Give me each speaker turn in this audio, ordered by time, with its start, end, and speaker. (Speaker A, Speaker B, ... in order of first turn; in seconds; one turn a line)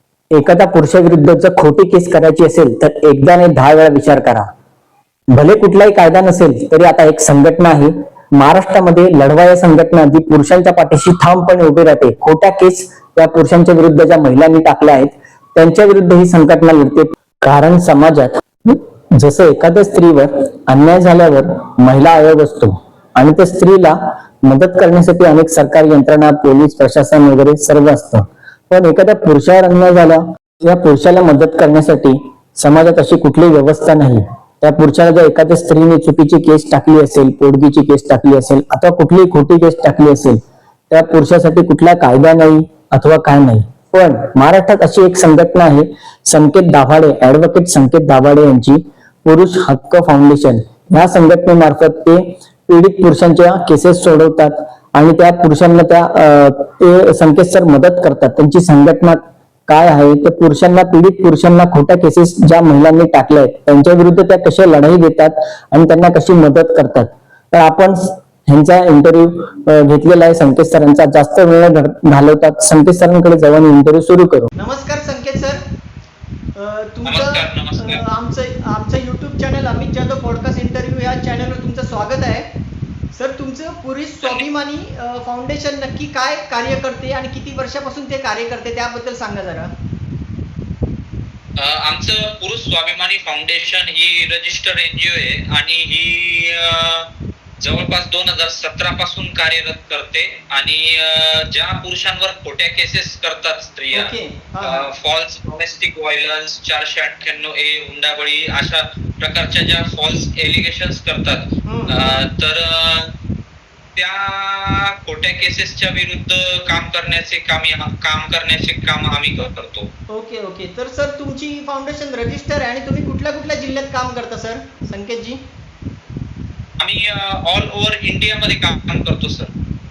Speaker A: 0.4-4.5
Speaker A: 5.3-40.4
Speaker A: 40.9-74.5
Speaker B: 74.6-75.6
Speaker B: 76.5-82.5
Speaker C: 77.1-78.0
Speaker B: 83.1-89.7
Speaker C: 91.6-97.1
Speaker C: 97.6-113.1
Speaker B: 103.9-104.9
Speaker B: 111.7-112.3
Speaker C: 114.0-119.9
Speaker B: 120.1-125.4
Speaker C: 126.8-129.5